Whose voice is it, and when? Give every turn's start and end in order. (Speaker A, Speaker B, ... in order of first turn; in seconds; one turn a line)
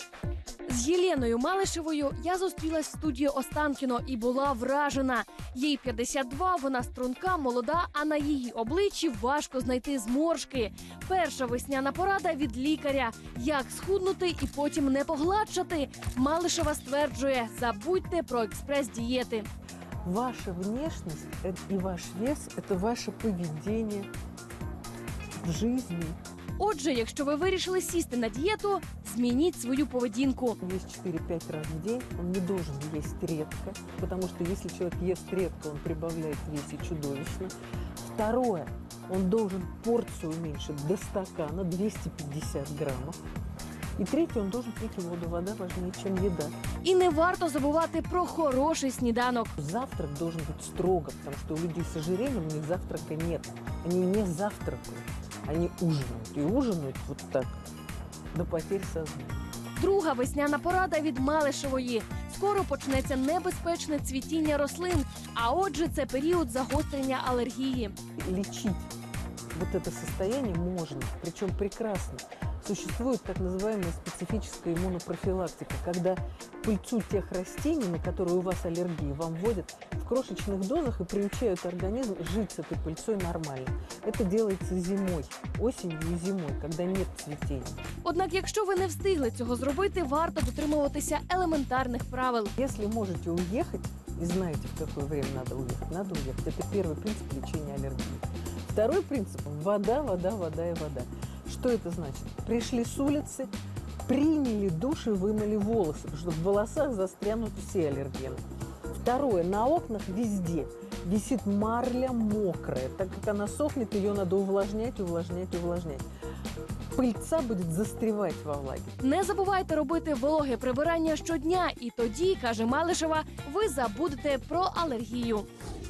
Speaker A: 0.7-19.5
Speaker B: 20.1-24.1
Speaker B: 25.4-26.2
Speaker A: 26.6-30.6
Speaker B: 30.6-43.2
Speaker B: 44.0-46.5
Speaker A: 46.8-49.6
Speaker B: 49.6-57.5
Speaker B: 58.3-59.5
Speaker A: 59.8-68.0
Speaker B: 68.2-68.9
Speaker B: 69.5-87.8
Speaker A: 88.0-92.5
Speaker B: 92.6-103.5
Speaker B: 104.1-108.4
Speaker B: 108.9-116.0
Speaker B: 116.9-118.9
Speaker A: 119.0-125.5